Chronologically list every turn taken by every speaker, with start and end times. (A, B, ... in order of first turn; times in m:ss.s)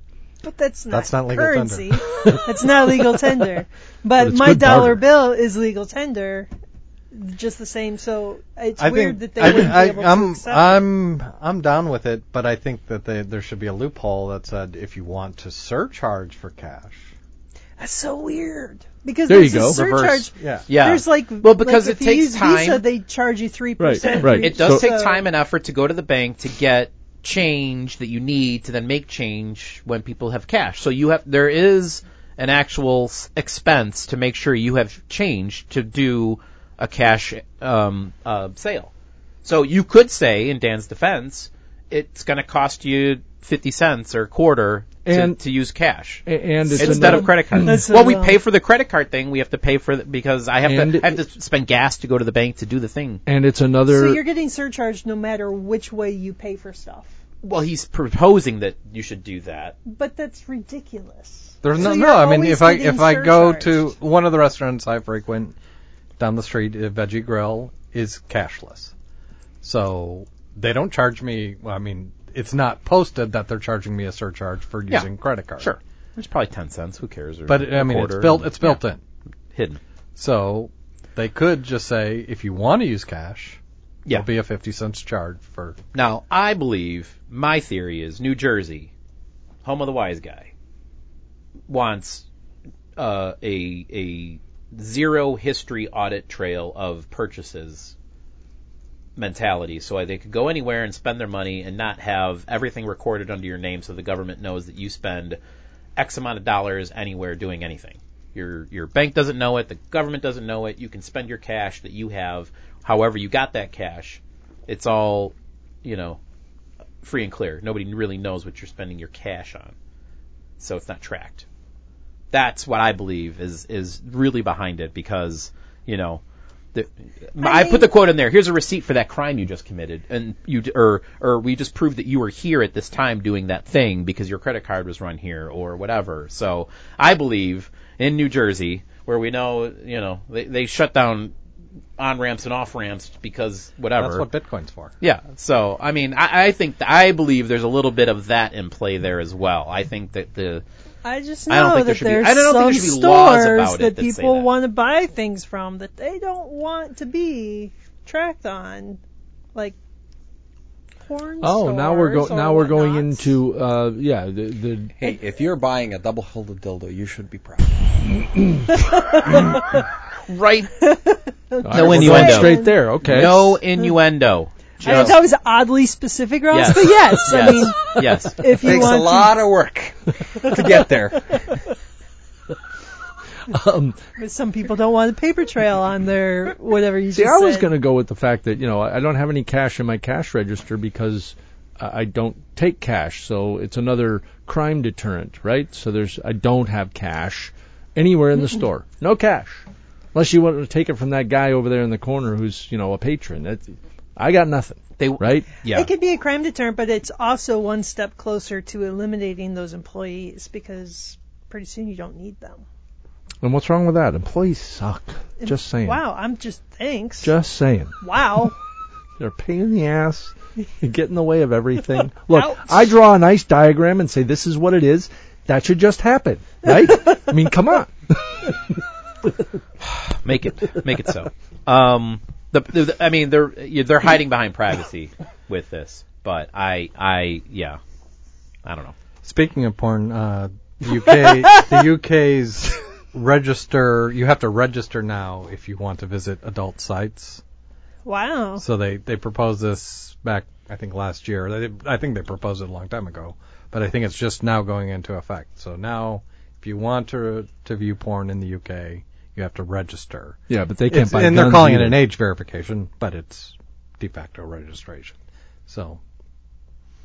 0:00.4-0:06.5 A
0:00.9-0:02.0 B
0:02.1-0:02.6 C
0:04.2-0:05.0 C
0:07.1-0:10.9 A
0:08.8-0:17.1 B
0:17.8-0:25.2 A
0:19.3-0:19.8 C
0:19.6-0:22.8 D
0:20.4-0:20.6 B
0:23.8-0:24.9 C
0:24.0-0:38.9 D
0:39.4-0:53.2 D
0:45.0-0:45.4 C
0:46.2-0:47.8 C
0:46.7-0:48.4 A
0:50.6-0:51.2 C
0:53.2-0:54.2 C
0:53.9-0:57.1 A
0:57.4-0:59.8 D
0:59.8-1:03.9 A
1:01.6-1:05.5 B
1:06.2-1:08.9 B
1:09.6-1:15.7 B
1:14.9-1:18.8 D
1:17.5-1:19.0 B
1:19.5-1:19.8 D
1:20.2-1:25.8 B
1:25.9-1:28.9 D
1:29.6-1:30.5 D
1:31.7-1:32.2 D
1:33.0-1:37.9 D
1:39.2-1:45.4 D
1:46.0-1:56.2 D
1:57.0-1:59.7 D
2:00.6-2:01.4 D
2:02.3-2:06.2 D
2:06.7-2:21.3 D
2:07.4-2:07.9 A
2:22.0-2:24.2 D
2:24.0-2:24.9 B
2:25.0-2:30.6 D
2:31.0-2:39.0 A
2:31.5-2:34.5 D
2:41.0-2:43.4 A
2:41.4-2:44.9 C
2:45.0-2:47.8 E
2:48.3-2:48.6 C
2:48.7-2:49.8 A
2:50.3-2:50.7 D
2:50.8-2:53.2 A
2:51.6-2:53.5 C
2:51.7-2:55.2 D
2:54.8-2:59.4 A
2:56.5-2:58.6 D
2:58.6-3:01.6 E
3:00.4-3:01.4 A
3:03.5-3:04.0 C
3:04.2-3:07.7 A
3:07.1-3:25.5 C
3:25.0-3:25.9 D
3:25.7-3:32.6 A
3:33.4-3:36.0 C
3:35.4-3:37.3 A
3:37.2-3:38.0 C
3:38.0-3:38.5 A
3:39.2-3:48.8 C
3:42.3-3:42.9 A
3:49.8-3:57.8 D
3:58.6-3:58.9 D
3:59.2-4:07.4 B
4:08.0-4:08.6 A
4:08.6-4:20.4 B
4:20.5-4:22.0 C
4:20.9-4:26.0 B